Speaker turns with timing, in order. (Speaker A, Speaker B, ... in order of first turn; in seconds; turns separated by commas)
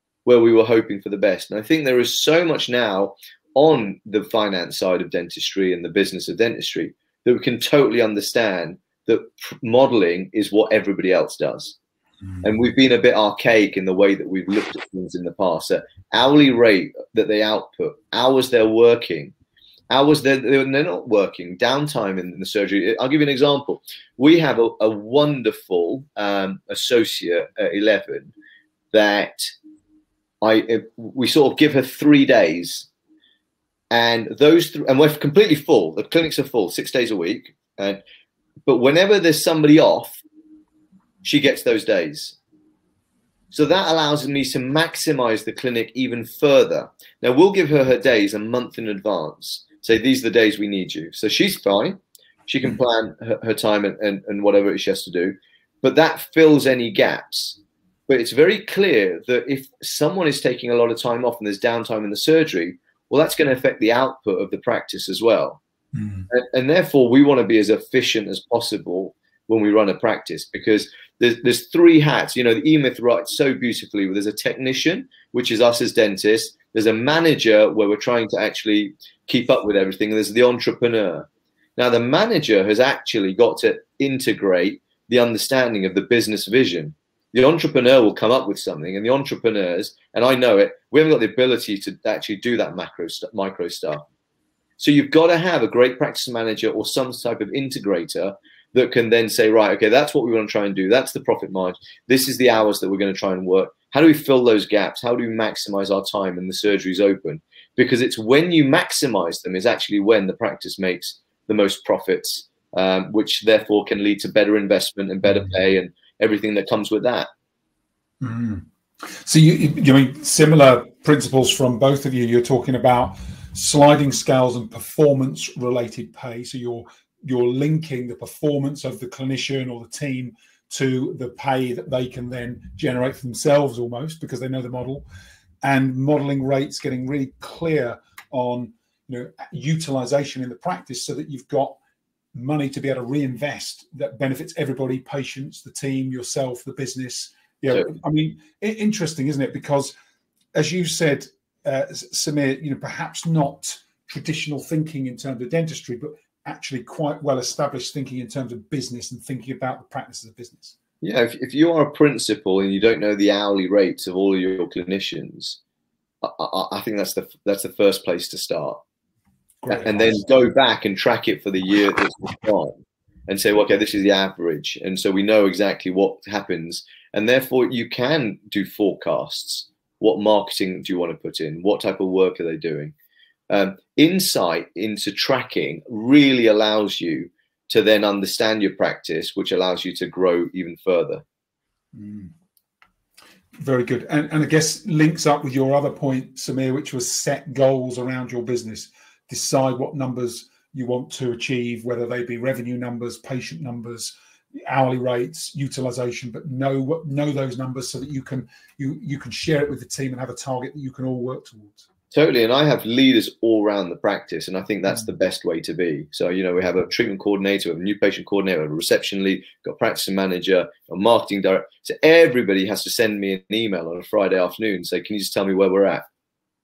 Speaker A: 0.2-11.8, Speaker A: 12.4-19.3, Speaker A: 19.9-28.3, Speaker A: 28.9-29.5, Speaker A: 30.4-32.9, Speaker A: 33.9-38.0, Speaker A: 38.6-40.2, Speaker A: 41.2-42.4, Speaker A: 43.5-65.6, Speaker B: 65.9-66.3, Speaker A: 66.3-94.0, Speaker A: 94.8-117.3, Speaker B: 118.2-135.0, Speaker B: 135.6-141.8, Speaker B: 142.3-149.9, Speaker B: 150.5-160.8, Speaker A: 161.0-165.6, Speaker A: 166.2-168.8, Speaker B: 169.6-170.3, Speaker A: 169.7-172.7, Speaker A: 173.3-182.9, Speaker A: 183.5-191.2, Speaker B: 191.9-192.3, Speaker B: 193.6-211.8, Speaker A: 212.1-226.0